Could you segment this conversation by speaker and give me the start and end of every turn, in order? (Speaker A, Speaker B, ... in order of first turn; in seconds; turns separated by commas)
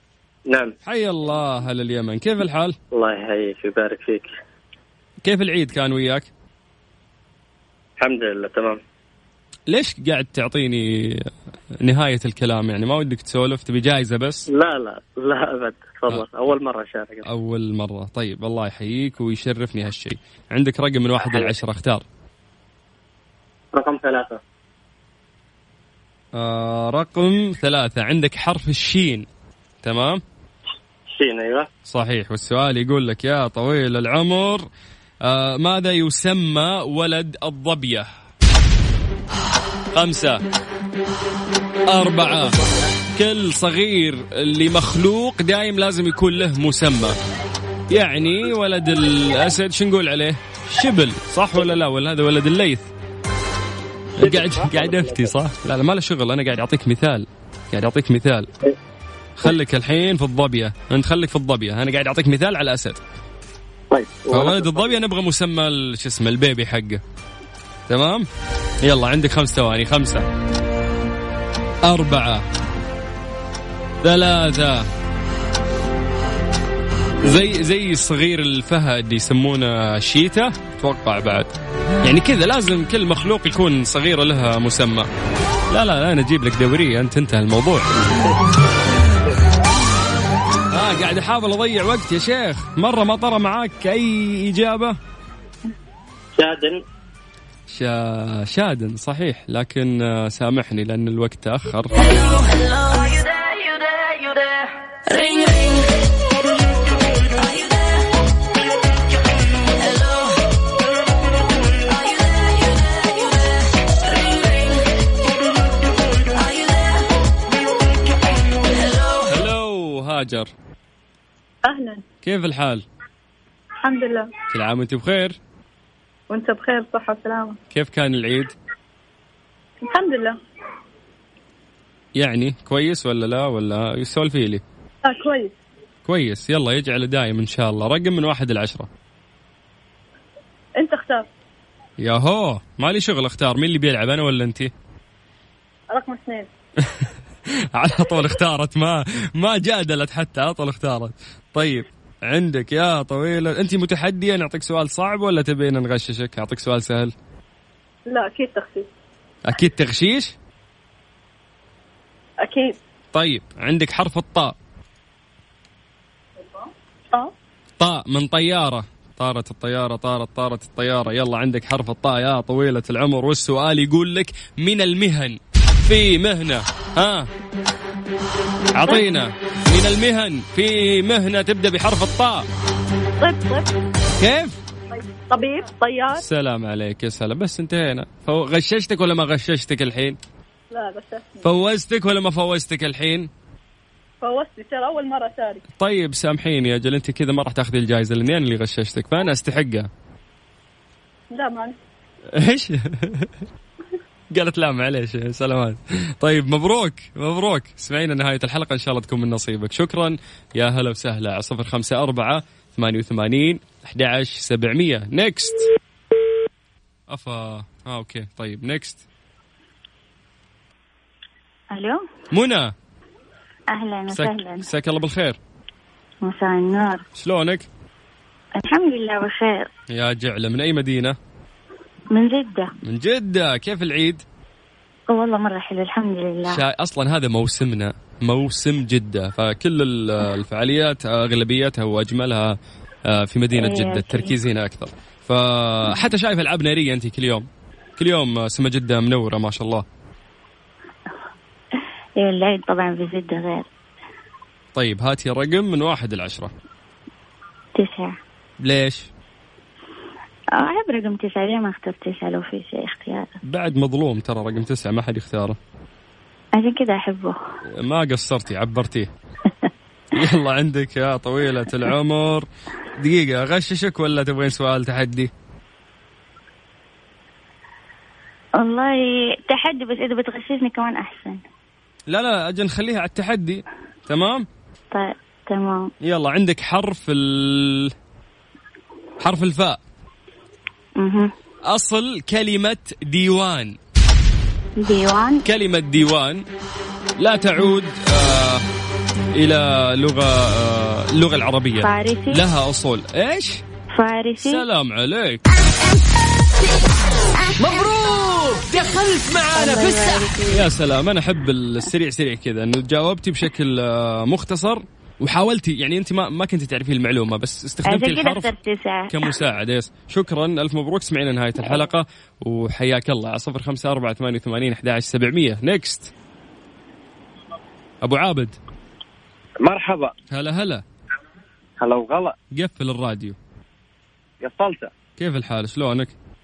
Speaker A: 0.5-0.7, Speaker B: 0.8-2.8, Speaker A: 2.9-4.3, Speaker B: 5.2-6.3, Speaker A: 8.0-8.8, Speaker B: 9.7-11.3, Speaker B: 11.8-14.5, Speaker A: 14.5-17.3, Speaker B: 17.3-22.0, Speaker A: 21.2-21.5, Speaker A: 23.7-24.4, Speaker B: 26.3-29.3, Speaker B: 29.8-30.2, Speaker A: 31.1-31.7, Speaker B: 31.9-34.7, Speaker B: 35.2-38.1, Speaker B: 39.9-40.4, Speaker B: 41.9-42.6, Speaker B: 43.2-47.2, Speaker B: 47.9-52.9, Speaker B: 54.2-58.5, Speaker C: 54.6-54.8, Speaker B: 59.4-63.0, Speaker B: 64.3-67.0, Speaker B: 67.9-68.3, Speaker B: 68.8-70.3, Speaker B: 71.9-72.5, Speaker B: 74.0-74.9, Speaker B: 77.2-85.1, Speaker B: 85.7-87.9, Speaker B: 90.7-95.0, Speaker A: 96.3-96.8, Speaker B: 97.7-101.9, Speaker B: 119.3-120.5, Speaker D: 121.7-122.0, Speaker B: 122.2-122.8, Speaker D: 123.8-124.3, Speaker B: 124.5-125.4, Speaker D: 126.3-127.6, Speaker B: 127.7-128.5, Speaker D: 129.8-130.4, Speaker B: 132.2-134.6, Speaker D: 135.0-135.6, Speaker B: 136.1-138.9, Speaker D: 140.8-141.2, Speaker B: 142.0-144.7, Speaker D: 145.9-146.5, Speaker B: 147.7-157.1, Speaker D: 158.1-158.9, Speaker B: 159.5-160.3, Speaker D: 162.4-162.8, Speaker B: 163.1-164.5, Speaker D: 166.4-167.3, Speaker B: 167.8-177.3, Speaker B: 178.7-182.5, Speaker D: 183.2-183.7, Speaker B: 184.2-184.6, Speaker D: 184.9-186.2, Speaker B: 186.2-190.2, Speaker D: 190.7-191.5, Speaker B: 191.4-193.3, Speaker D: 194.2-195.6, Speaker B: 195.8-199.9, Speaker D: 201.3-201.8, Speaker B: 202.3-203.3, Speaker B: 204.3-215.7, Speaker B: 217.1-219.0, Speaker E: 221.7-222.1, Speaker B: 222.3-222.7, Speaker E: 223.7-224.7, Speaker B: 224.1-225.4, Speaker E: 226.2-227.1, Speaker B: 227.2-227.7, Speaker E: 228.6-229.7, Speaker B: 229.9-231.2, Speaker E: 232.1-232.7, Speaker B: 232.8-234.2, Speaker E: 235.1-236.6, Speaker B: 236.5-242.6, Speaker B: 243.1-249.8, Speaker E: 243.5-244.3, Speaker E: 252.2-253.7, Speaker B: 254.8-256.5, Speaker E: 257.8-258.2, Speaker B: 258.6-259.1, Speaker E: 260.6-263.3, Speaker B: 263.4-265.6, Speaker E: 266.6-267.4, Speaker B: 267.8-269.1, Speaker B: 270.2-275.3, Speaker E: 278.6-281.4, Speaker B: 282.1-284.5, Speaker E: 284.9-285.9, Speaker B: 286.0-287.9, Speaker B: 289.2-289.8, Speaker E: 291.0-291.3, Speaker B: 291.7-293.8, Speaker E: 294.8-295.4, Speaker B: 295.4-296.4, Speaker B: 297.2-298.6, Speaker B: 299.4-303.6, Speaker E: 301.8-302.4, Speaker E: 303.9-304.6, Speaker B: 304.4-305.4, Speaker F: 307.6-310.2, Speaker E: 309.6-310.6, Speaker B: 310.5-318.5, Speaker E: 317.9-319.3, Speaker B: 319.1-326.1, Speaker B: 328.0-328.6, Speaker C: 329.6-330.1, Speaker B: 330.3-330.8, Speaker C: 331.8-332.4, Speaker B: 332.5-333.4, Speaker C: 334.4-334.9, Speaker B: 335.2-336.1